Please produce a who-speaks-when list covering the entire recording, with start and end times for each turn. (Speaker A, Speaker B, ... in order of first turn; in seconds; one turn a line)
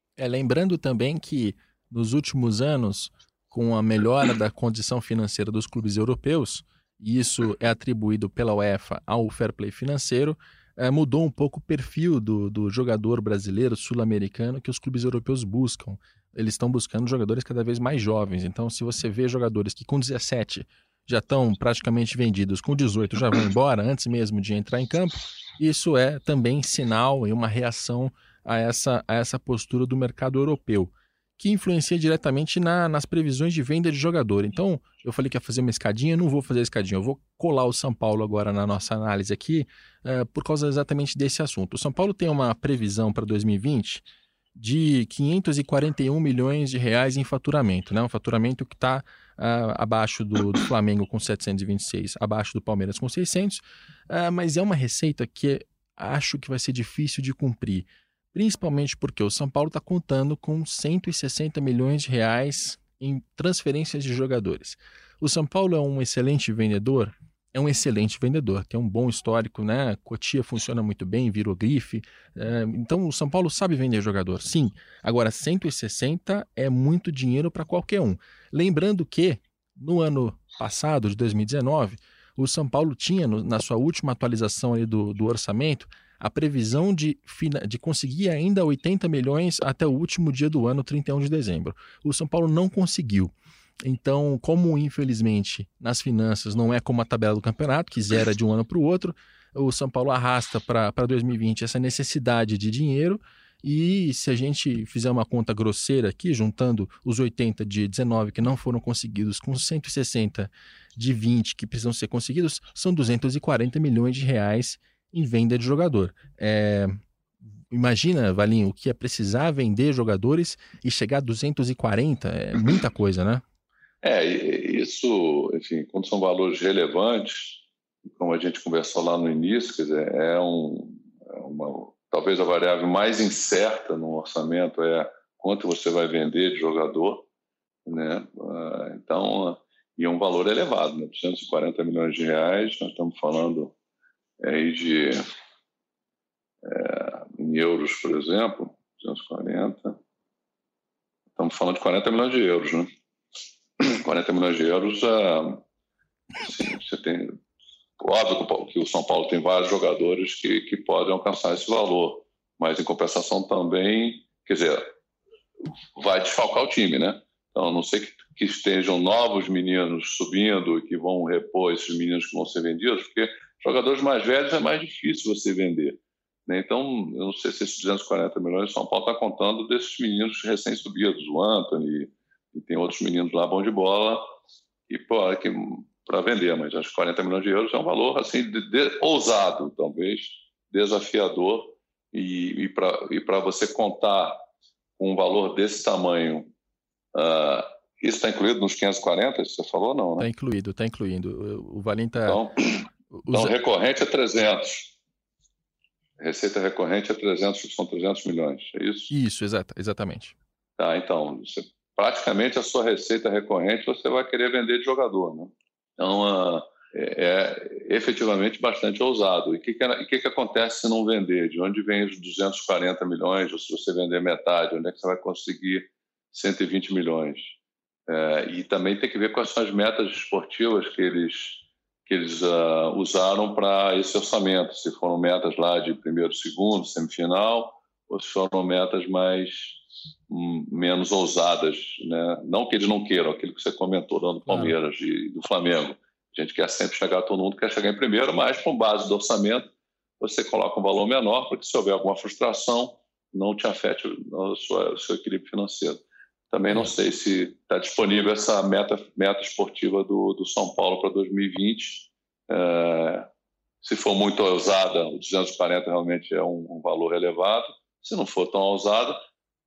Speaker A: 0.2-44.0
Speaker A: 44.5-93.3
Speaker A: 93.8-116.9
Speaker A: 117.7-123.4
Speaker B: 124.0-137.2
Speaker B: 137.8-143.7
Speaker B: 144.4-145.2
Speaker B: 146.6-150.0
Speaker B: 151.4-152.9
Speaker B: 153.8-155.6
Speaker B: 156.4-157.3
Speaker B: 158.0-164.8
Speaker B: 165.9-184.2
Speaker B: 184.9-194.4
Speaker B: 195.0-196.5
Speaker B: 197.1-200.3
Speaker A: 200.2-202.4
Speaker B: 202.2-204.9
Speaker A: 203.1-203.5
Speaker B: 206.2-209.1
Speaker A: 209.1-210.3
Speaker B: 210.8-227.5
Speaker B: 228.1-239.8
Speaker B: 240.3-263.3
Speaker A: 244.5-244.7
Speaker B: 263.8-269.2